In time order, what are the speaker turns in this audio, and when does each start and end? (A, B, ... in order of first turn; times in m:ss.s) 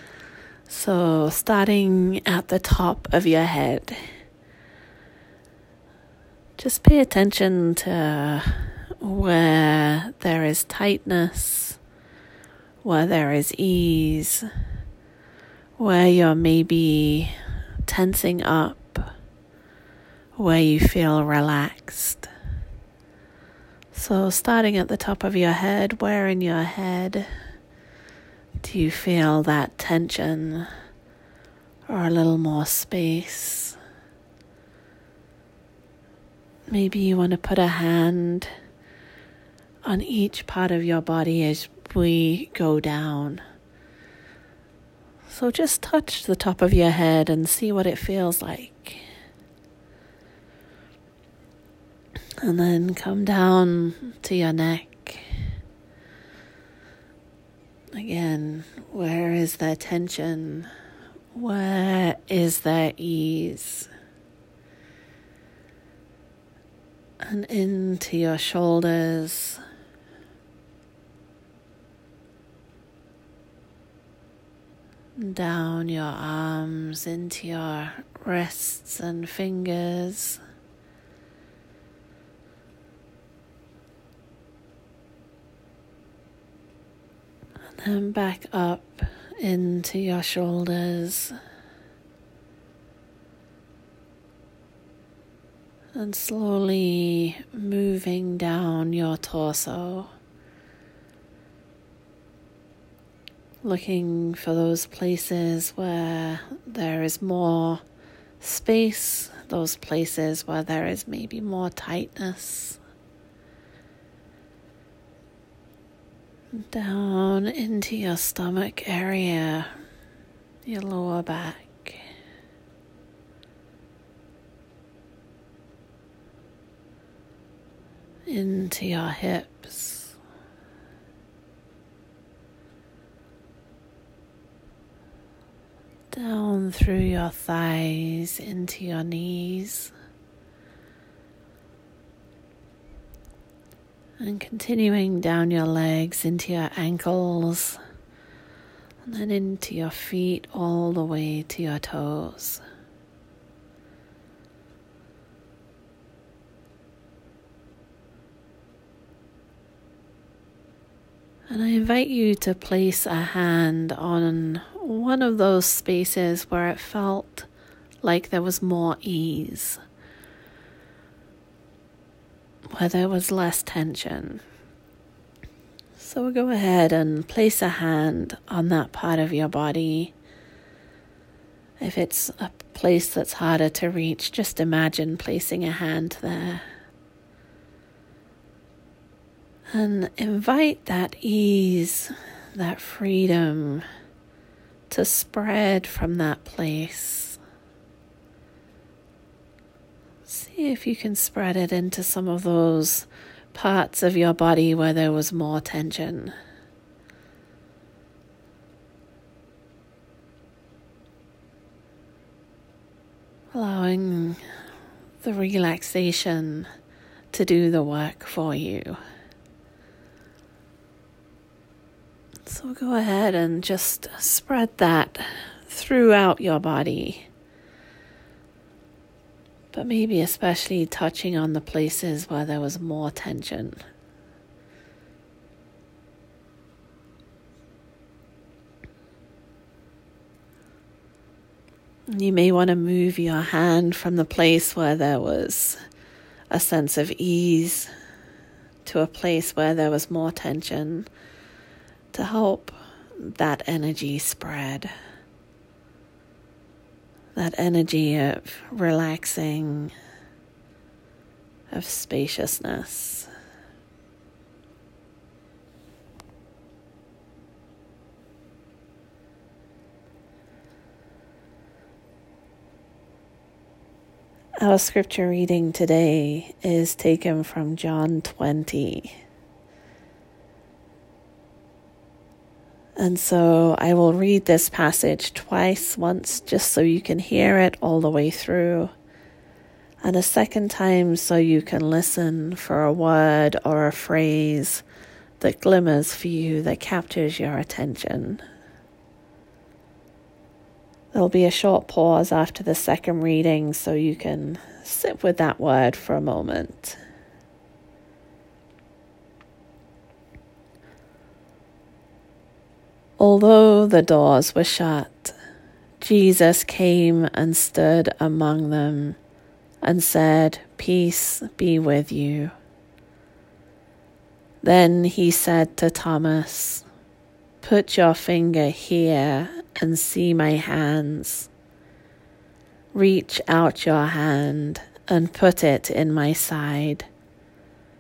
0:00.7-0:04.0 A
0:06.6-0:11.8 A
0:12.8-0:14.5 A
0:15.8-0:19.1 A
0:20.4-0:22.3 A
0:23.9-0:27.3 A
0:28.6-0:30.7 A
0:31.9-0:33.8 A
0:36.7-0:38.5 A
0:39.8-0:43.4 A
0:45.3-0:49.0 A
0:52.4-0:55.3 A
0:57.9-1:00.7 A
1:01.3-1:03.9 A
1:07.2-1:09.6 A
1:15.2-1:20.4 A
1:27.8-1:31.4 A
1:36.0-1:40.1 A
1:43.6-1:47.8 A
1:48.4-1:52.8 A
1:56.6-1:59.7 A
2:00.7-2:02.0 A
2:08.3-2:10.1 A
2:16.1-2:19.9 A
2:24.2-2:27.8 A
2:29.0-2:32.6 A
2:41.5-2:47.5 A
2:48.0-2:49.8 A
2:52.7-2:54.4 A
2:56.0-3:00.2 A
3:01.8-3:06.6 A
3:09.7-3:13.8 A
3:14.9-3:17.4 A
3:20.3-3:26.3 A
3:33.5-3:34.4 A
3:35.2-3:36.7 A
3:37.3-3:39.0 A
3:42.5-3:47.3 A
3:49.7-3:53.8 A
4:02.1-4:05.8 A
4:06.5-4:07.9 A
4:08.8-4:11.1 A
4:12.1-4:14.9 A
4:17.4-4:19.9 A
4:21.7-4:23.3 A
4:34.6-4:39.2 A
4:43.0-4:48.9 A
4:50.0-4:54.8 A
4:55.4-4:58.4 A
5:01.1-5:07.0 A
5:13.2-5:15.4 A
5:16.0-5:19.2 A
5:19.8-5:22.5 A
5:24.6-5:26.9 A
5:27.6-5:31.5 A
5:32.9-5:37.1 A